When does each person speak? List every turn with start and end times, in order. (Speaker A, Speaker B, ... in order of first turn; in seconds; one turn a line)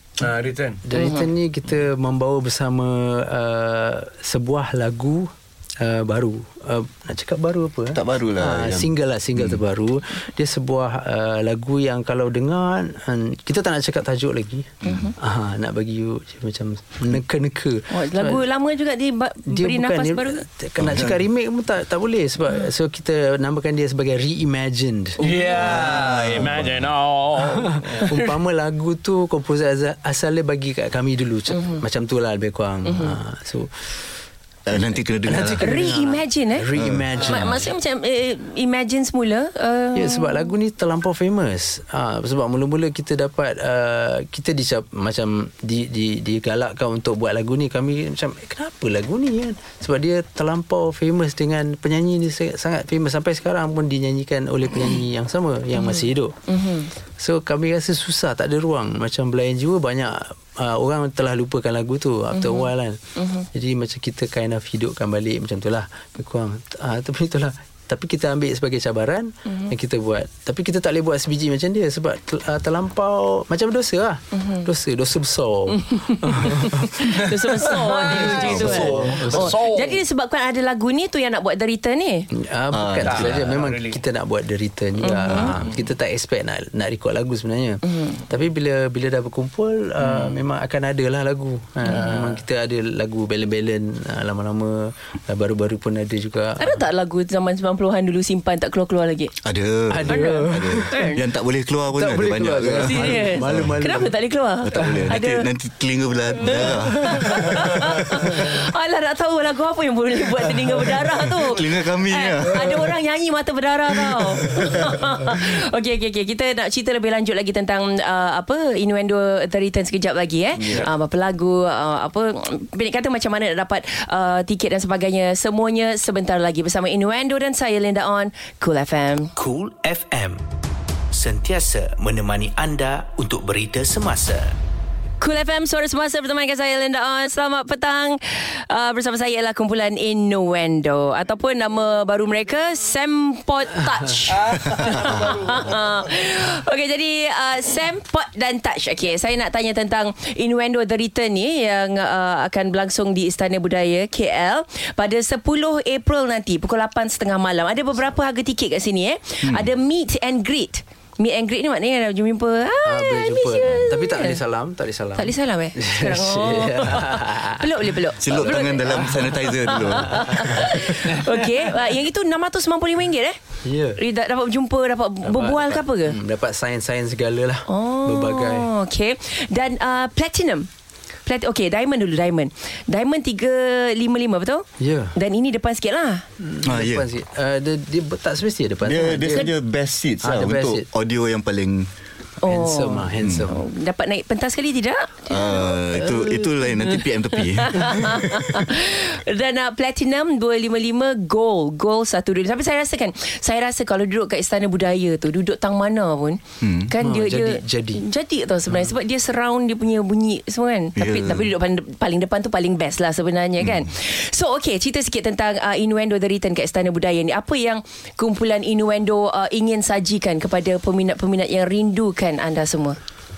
Speaker A: 0.2-0.8
Speaker B: 0.8-18.5
Speaker C: 0.9-1.3
Speaker D: 7.9-9.6
Speaker C: 14.8-15.1
Speaker C: 17.9-20.4
Speaker B: 19.5-25.2
Speaker D: 20.8-21.2
Speaker A: 25.2-28.4
Speaker D: 25.5-26.9
Speaker B: 27.6-33.7
Speaker C: 31.6-31.8
Speaker C: 32.9-33.1
Speaker D: 34.7-36.0
Speaker B: 35.2-37.7
Speaker C: 35.6-36.7
Speaker D: 36.7-37.6
Speaker C: 37.2-40.5
Speaker B: 40.0-56.4
Speaker C: 55.8-56.9
Speaker B: 57.2-63.0
Speaker C: 62.3-63.5
Speaker B: 63.5-77.2
Speaker C: 74.4-74.7
Speaker C: 75.7-82.3
Speaker A: 77.3-80.0
Speaker B: 78.1-79.6
Speaker D: 78.2-79.2
Speaker B: 82.3-96.8
Speaker D: 82.7-83.5
Speaker A: 83.0-84.0
Speaker C: 85.0-85.6
Speaker A: 85.4-85.7
Speaker C: 87.8-88.2
Speaker A: 90.0-90.3
Speaker C: 91.9-92.2
Speaker A: 91.9-92.4
Speaker C: 96.6-99.3
Speaker D: 99.4-103.8
Speaker B: 99.9-101.1
Speaker C: 100.1-101.2
Speaker B: 102.0-104.2
Speaker C: 102.8-105.5
Speaker D: 104.6-108.5
Speaker B: 104.7-105.0
Speaker C: 106.4-129.3
Speaker B: 106.5-107.5
Speaker D: 111.3-113.0
Speaker D: 114.0-115.4
Speaker E: 129.4-130.4
Speaker E: 131.1-134.6
Speaker C: 135.2-164.4
Speaker A: 144.4-145.6
Speaker D: 159.4-159.7
Speaker B: 162.8-169.3
Speaker C: 165.2-173.4
Speaker D: 168.2-170.8
Speaker B: 169.9-171.2
Speaker B: 173.6-174.0
Speaker C: 174.0-176.2
Speaker B: 175.2-178.7
Speaker C: 177.7-180.7
Speaker C: 181.3-186.2
Speaker B: 184.8-185.2
Speaker B: 186.4-189.5
Speaker D: 186.6-187.1
Speaker D: 188.8-191.9
Speaker C: 189.2-189.5
Speaker B: 190.2-190.9
Speaker C: 192.4-195.7
Speaker B: 192.4-193.6
Speaker D: 193.2-193.5
Speaker D: 195.3-198.7
Speaker C: 197.4-223.0
Speaker D: 206.6-206.9
Speaker B: 207.0-208.0
Speaker D: 211.0-211.5
Speaker D: 213.6-213.9